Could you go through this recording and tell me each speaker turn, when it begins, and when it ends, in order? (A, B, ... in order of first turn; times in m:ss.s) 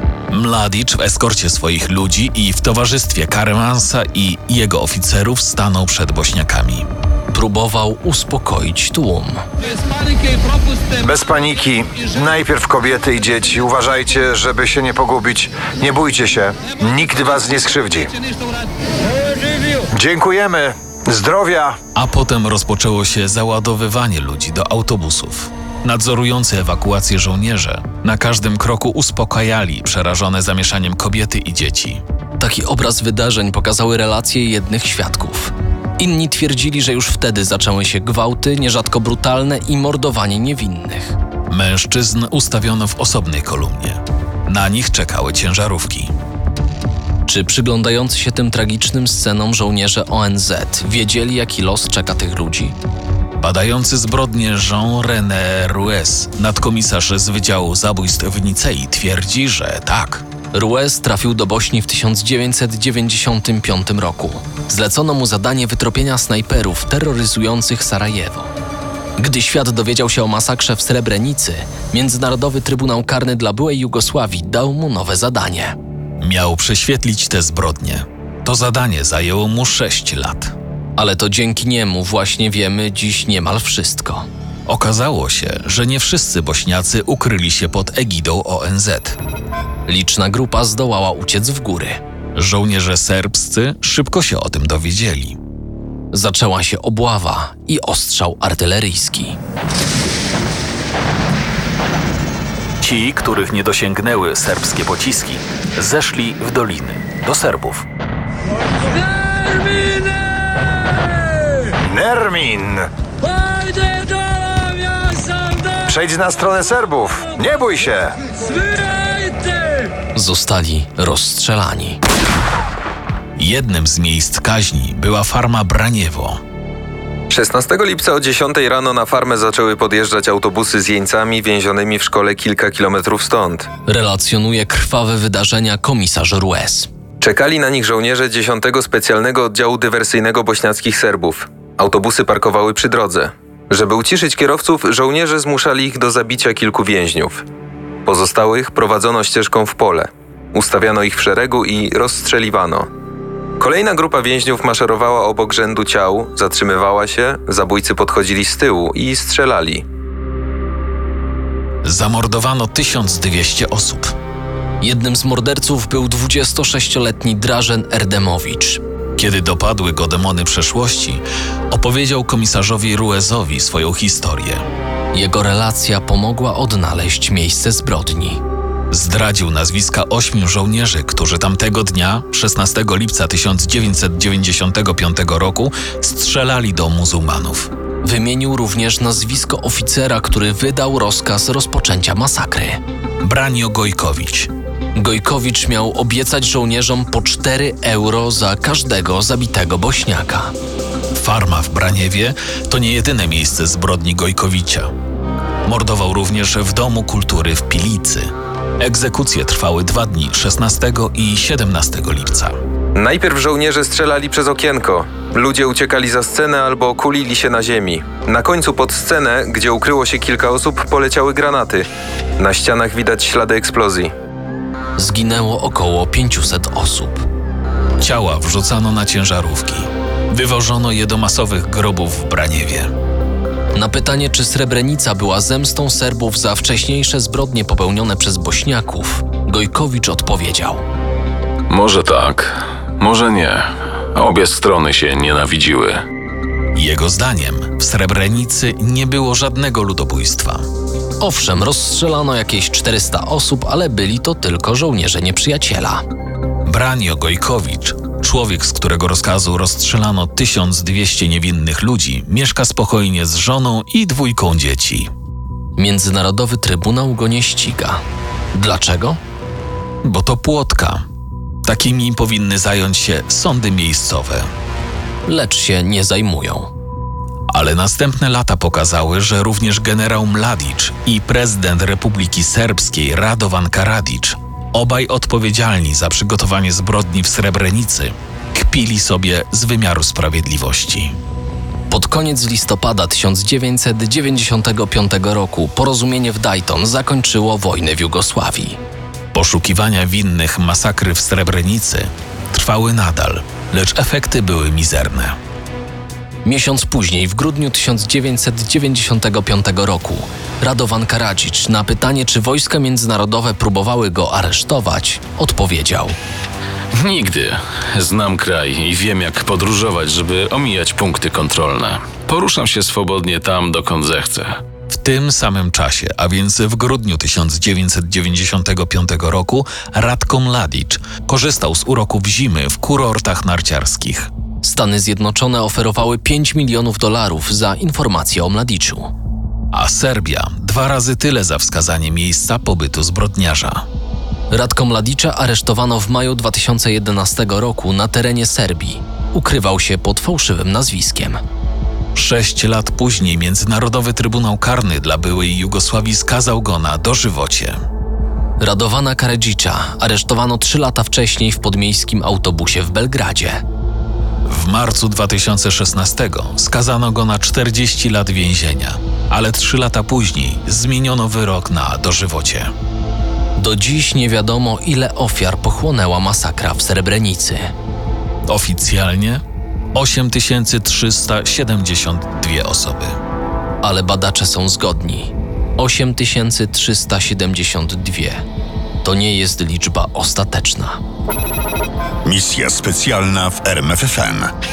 0:00.3-0:06.9 A
0:07.3-0:09.4 B
0:11.0-0:18.1 C
0:19.7-0:21.8 C
0:22.0-0:32.0 A
0:32.4-0:41.2 B
0:41.5-0:46.1 A
0:47.3-0:52.8 B
0:53.4-1:00.2 A
1:00.5-1:08.5 B
1:09.2-1:15.8 B
1:16.2-1:20.6 A
1:21.0-1:24.3 B
1:24.7-1:29.2 A
1:29.9-1:32.0 B
1:32.4-1:35.4 A
1:36.1-1:39.4 B
1:42.8-1:47.9 A
1:51.8-1:52.9 C
1:55.6-1:58.7 C
2:00.2-2:02.0 B
2:03.4-2:06.4 A
2:07.3-2:13.7 D
2:13.9-2:16.9 B
2:17.2-2:27.4 D
2:28.1-2:32.9 D
2:33.6-2:39.8 D
2:41.8-2:44.1 A
2:44.8-2:48.8 B
2:49.2-2:54.6 A
2:55.1-2:58.4 B
2:58.9-3:07.7 A
3:08.0-3:12.8 B
3:13.2-3:14.5 A
3:15.0-3:20.5 B
3:21.2-3:24.9 A
3:25.7-3:32.6 A
3:33.0-3:41.9 D
3:42.4-3:44.1 D
3:45.0-3:47.2 B
3:48.0-3:52.9 A
3:53.7-4:00.8 B
4:01.7-4:06.0 E
4:06.7-4:10.6 A
4:11.2-4:16.0 B
4:16.7-4:25.1 A
4:25.8-4:28.0 B
4:28.5-4:29.2 B
4:30.0-4:31.0 A
4:31.6-4:34.5 A
4:35.2-4:36.7 B
4:37.5-4:51.2 A
4:51.9-4:58.8 B
4:59.3-5:05.4 A
5:06.4-5:16.2 B
5:16.9-5:24.6 E
5:24.9-5:34.3 A
5:34.6-5:39.1 B
5:39.7-5:43.9 A
5:44.5-5:51.4 B
5:52.2-5:57.8 A
5:58.6-6:03.6 B
6:04.5-6:12.7 A
6:13.6-6:17.7 B
6:18.5-6:19.4 A
6:20.0-6:23.2 A
6:23.8-6:28.4 B
6:29.0-6:31.0 B
6:32.2-6:34.5 F